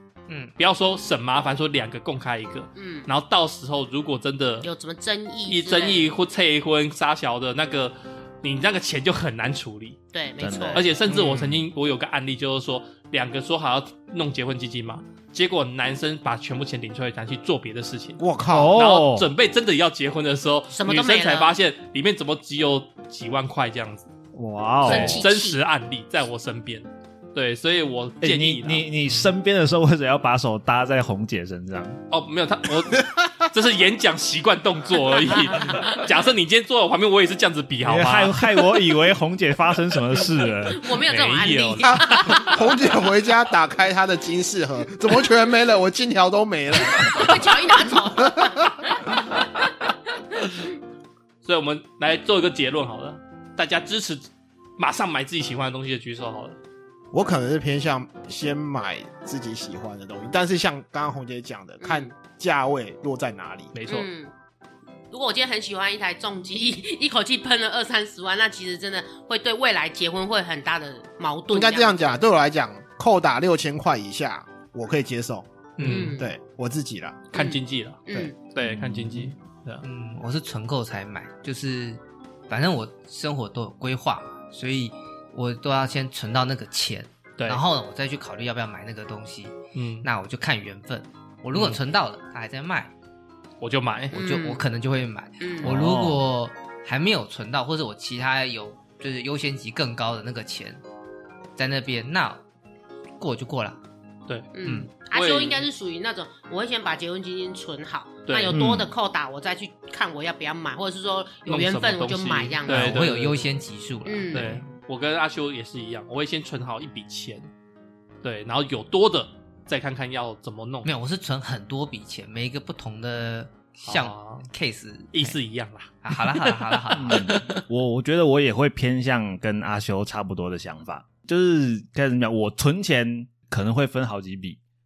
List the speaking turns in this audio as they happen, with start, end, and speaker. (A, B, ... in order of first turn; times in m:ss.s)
0:00.6-0:04.7 A
0:02.8-0:03.1 B
0:04.6-0:06.1 B
0:05.5-0:10.0 A
0:10.1-0:11.5 B
0:10.4-0:10.9 C
0:10.7-0:24.1 A
0:18.2-0:18.8 D
0:18.5-0:19.3 C
0:20.7-0:21.6 B
0:24.3-0:25.3 C
0:24.8-0:25.6 B
0:24.8-0:29.3 A
0:28.2-0:32.0 C
0:32.1-0:38.5 A
0:35.5-0:35.9 B
0:37.8-0:40.9 C
0:40.7-0:42.6 B
0:40.9-0:42.6 A
0:41.8-0:48.7 D
0:46.8-0:49.0 B
0:51.4-0:56.6 A
0:57.1-1:03.7 D
1:01.8-1:02.2 B
1:03.7-1:04.1 A
1:03.9-1:04.3 B
1:05.1-1:12.2 B
1:11.5-1:17.3 D
1:15.8-1:16.2 A
1:15.8-1:16.3 B
1:17.3-1:19.8 A
1:17.3-1:18.4 B
1:18.6-1:19.3 C
1:19.8-1:32.9 E
1:29.7-1:30.1 A
1:31.5-1:31.8 A
1:33.6-1:34.2 A
1:34.1-1:34.6 B
1:34.1-1:40.8 E
1:35.4-1:35.7 B
1:35.6-1:36.2 C
1:41.6-1:42.4 E
1:43.2-1:43.8 E
1:44.3-1:45.7 A
1:44.5-1:53.1 B
1:48.3-1:48.6 A
1:48.5-1:48.9 C
1:51.5-1:53.4 A
1:52.7-1:54.6 E
1:54.0-1:54.6 B
1:54.3-1:57.5 A
1:58.2-2:00.9 A
2:00.8-2:05.4 E
2:03.9-2:04.5 A
2:05.1-2:07.6 A
2:06.0-2:07.2 E
2:06.9-2:14.6 C